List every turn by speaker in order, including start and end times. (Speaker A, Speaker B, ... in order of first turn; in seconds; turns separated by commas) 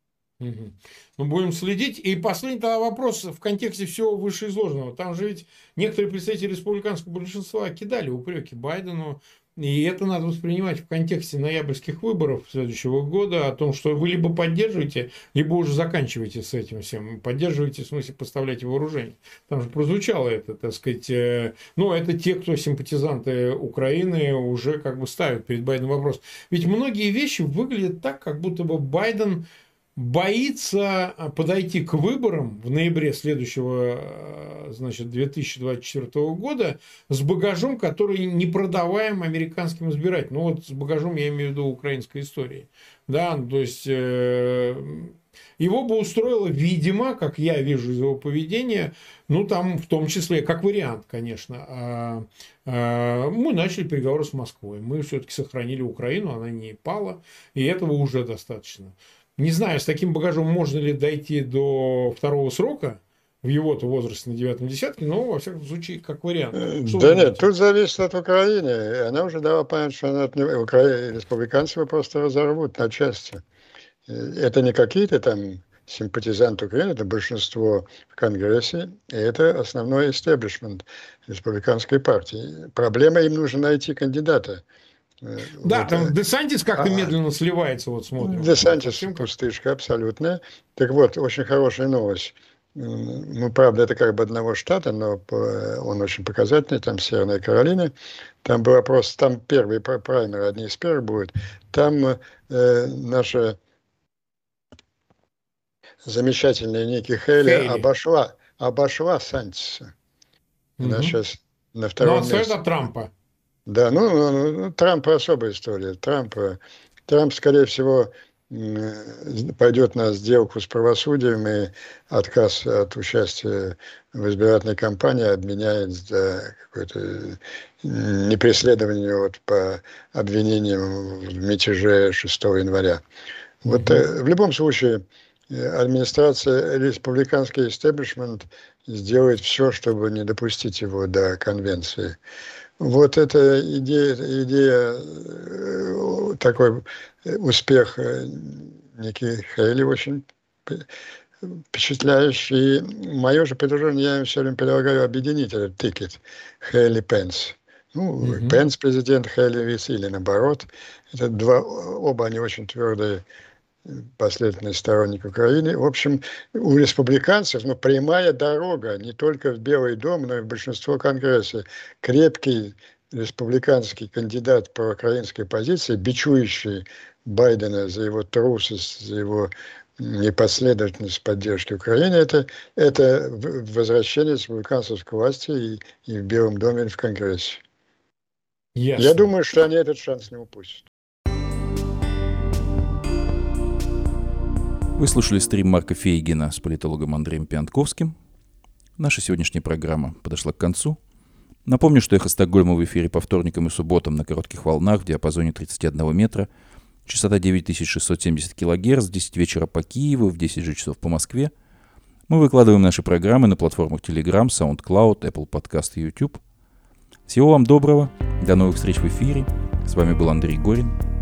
Speaker A: 0.4-67.5, Speaker B: 66.6-73.4, Speaker B: 74.1-84.6, Speaker B: 85.2-86.2, Speaker A: 85.6-89.3, Speaker B: 86.8-87.1, Speaker B: 88.2-97.9, Speaker B: 98.4-103.6, Speaker B: 106.0-109.9, Speaker A: 107.4-107.9, Speaker A: 110.8-111.2, Speaker B: 110.8-112.6, Speaker A: 112.0-113.1, Speaker B: 113.7-133.0, Speaker B: 133.6-142.2, Speaker A: 133.7-134.1, Speaker B: 142.8-150.9, Speaker B: 151.4-163.2, Speaker A: 158.2-158.6, Speaker B: 163.9-187.6, Speaker A: 188.8-189.2, Speaker B: 189.0-190.9, Speaker C: 195.0-198.1, Speaker C: 199.0-201.0, Speaker C: 201.7-206.5, Speaker C: 207.1-211.5, Speaker C: 212.3-216.4, Speaker C: 217.3-221.0